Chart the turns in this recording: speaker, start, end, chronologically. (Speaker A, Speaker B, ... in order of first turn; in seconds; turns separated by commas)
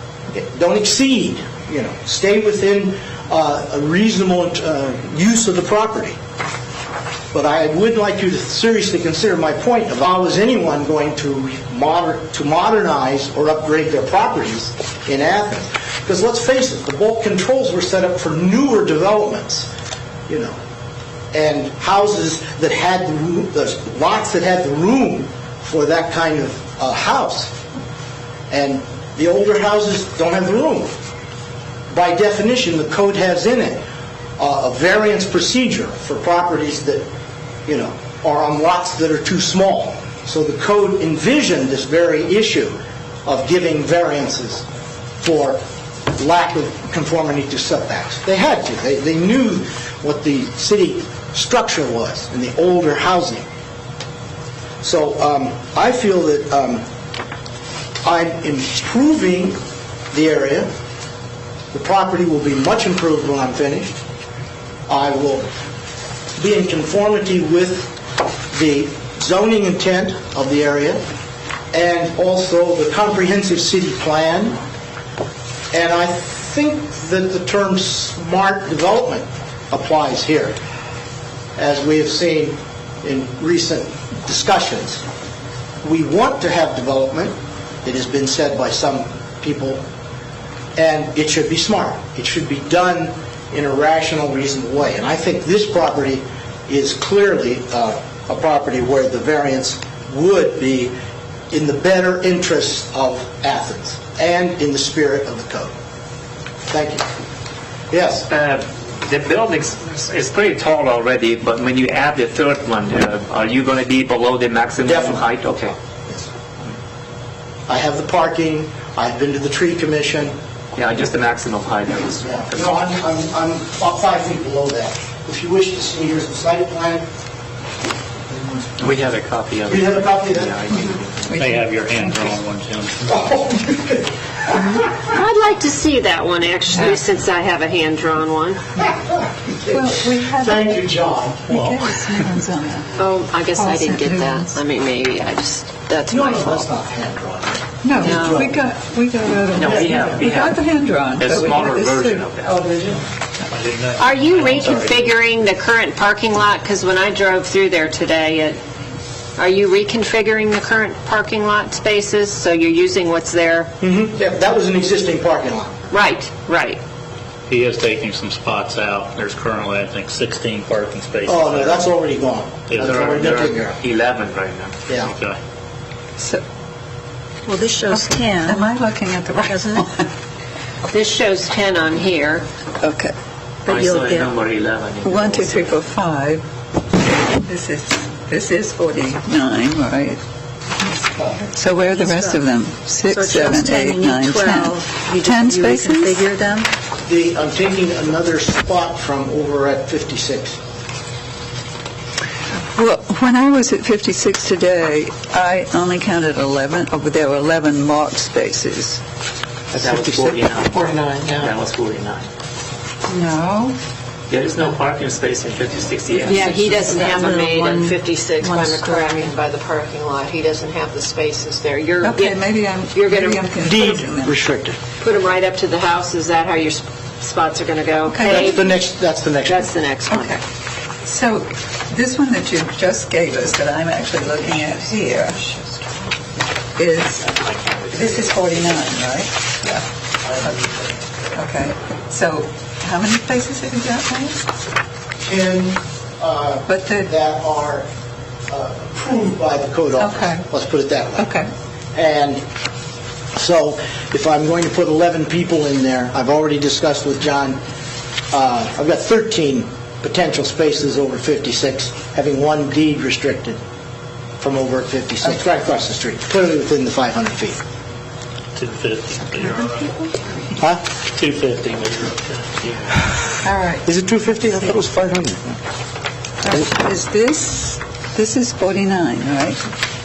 Speaker A: 0.3-6.2, Speaker A: 7.3-19.7, Speaker A: 20.3-20.6, Speaker A: 21.3-27.5, Speaker A: 28.5-30.9, Speaker A: 31.9-33.8, Speaker A: 34.4-37.0, Speaker A: 37.6-44.6, Speaker A: 45.2-45.6, Speaker A: 46.1-53.5, Speaker A: 54.8-56.8, Speaker A: 58.0-59.6, Speaker A: 60.1-60.7, Speaker A: 61.7-63.9, Speaker A: 64.9-65.5, Speaker A: 66.4-67.9, Speaker A: 68.5-71.0, Speaker A: 71.7-74.6, Speaker A: 75.7-80.6, Speaker A: 81.5-85.0, Speaker A: 85.8-89.8, Speaker A: 90.8-100.9, Speaker A: 101.5-105.7, Speaker A: 106.7-107.0, Speaker A: 107.9-108.3, Speaker B: 108.3-115.7, Speaker A: 114.8-115.3, Speaker A: 117.7-120.3, Speaker B: 120.7-122.8, Speaker A: 122.2-127.0, Speaker B: 128.8-131.4, Speaker A: 129.7-130.8, Speaker C: 131.3-132.3, Speaker D: 131.3-133.1, Speaker A: 133.1-135.0, Speaker E: 134.9-138.7, Speaker A: 139.5-142.1, Speaker C: 139.7-140.8, Speaker C: 141.5-142.9, Speaker E: 143.0-146.7, Speaker C: 143.5-144.6, Speaker A: 146.1-148.6, Speaker C: 147.8-152.2, Speaker E: 148.0-148.4, Speaker B: 149.5-150.6, Speaker A: 149.6-150.0, Speaker B: 151.1-152.6, Speaker F: 152.6-153.0, Speaker D: 153.5-155.1, Speaker E: 154.0-158.6, Speaker E: 159.4-163.7, Speaker A: 163.8-165.8, Speaker E: 165.9-166.8, Speaker D: 167.5-171.9, Speaker A: 171.2-173.8, Speaker D: 172.7-173.2, Speaker B: 172.8-174.8, Speaker A: 174.9-175.1, Speaker D: 175.0-175.4, Speaker F: 177.4-178.7, Speaker C: 177.8-180.1, Speaker F: 179.4-179.8, Speaker E: 180.9-182.4, Speaker C: 182.8-183.1, Speaker F: 183.7-184.4, Speaker B: 183.7-185.8, Speaker C: 185.0-186.4, Speaker C: 187.1-190.2, Speaker C: 190.8-196.2, Speaker F: 191.7-192.4, Speaker F: 193.0-196.7, Speaker A: 197.0-200.6, Speaker C: 202.7-209.0, Speaker A: 209.7-210.3, Speaker B: 209.8-212.3, Speaker F: 210.7-211.5, Speaker C: 213.1-213.8, Speaker B: 214.3-217.1, Speaker E: 216.2-223.4, Speaker F: 216.6-219.3, Speaker C: 222.0-224.4, Speaker A: 223.6-224.8, Speaker E: 225.0-228.8, Speaker C: 228.1-228.6, Speaker A: 228.2-229.7, Speaker E: 229.4-230.4, Speaker C: 230.1-230.4, Speaker C: 231.0-235.4, Speaker C: 236.8-237.3, Speaker B: 237.3-238.9, Speaker C: 237.9-239.9, Speaker A: 240.2-240.9, Speaker C: 241.3-244.4, Speaker A: 245.2-247.9, Speaker C: 246.7-247.1, Speaker A: 248.5-251.3, Speaker C: 250.0-250.4, Speaker C: 251.2-251.5, Speaker A: 251.9-252.4, Speaker A: 253.3-257.6, Speaker A: 258.3-263.6, Speaker A: 264.4-267.6, Speaker D: 268.5-269.9, Speaker A: 270.6-270.8, Speaker D: 271.1-272.7, Speaker C: 273.4-273.8, Speaker A: 273.8-275.6, Speaker C: 276.4-279.6